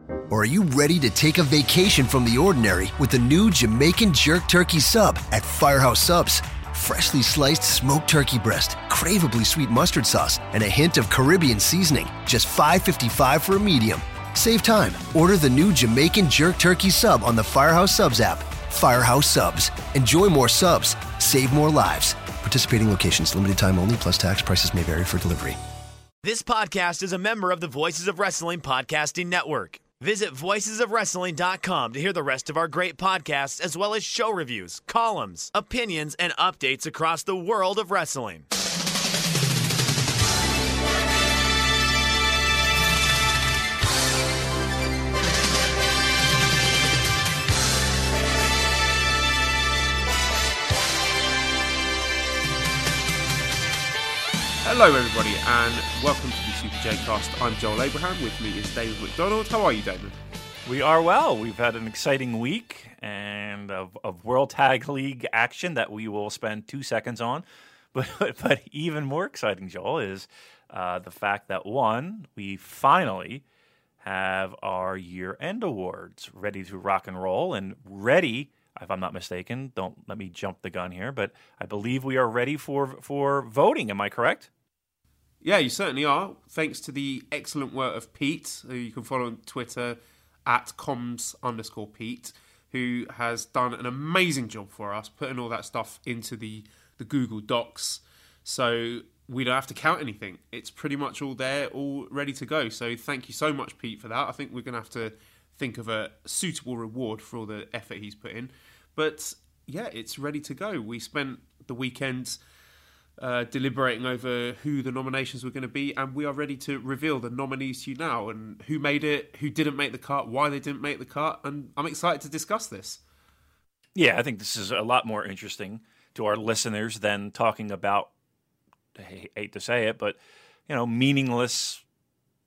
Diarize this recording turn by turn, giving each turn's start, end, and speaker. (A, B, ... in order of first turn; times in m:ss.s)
0:00.3-0:25.6 A
0:26.2-0:38.5 B
0:54.6-1:00.2 C
1:00.7-1:13.4 D
1:14.0-1:24.5 D
1:25.4-1:52.4 C
1:53.2-2:03.0 C
2:04.0-2:08.1 D
2:09.0-2:11.8 D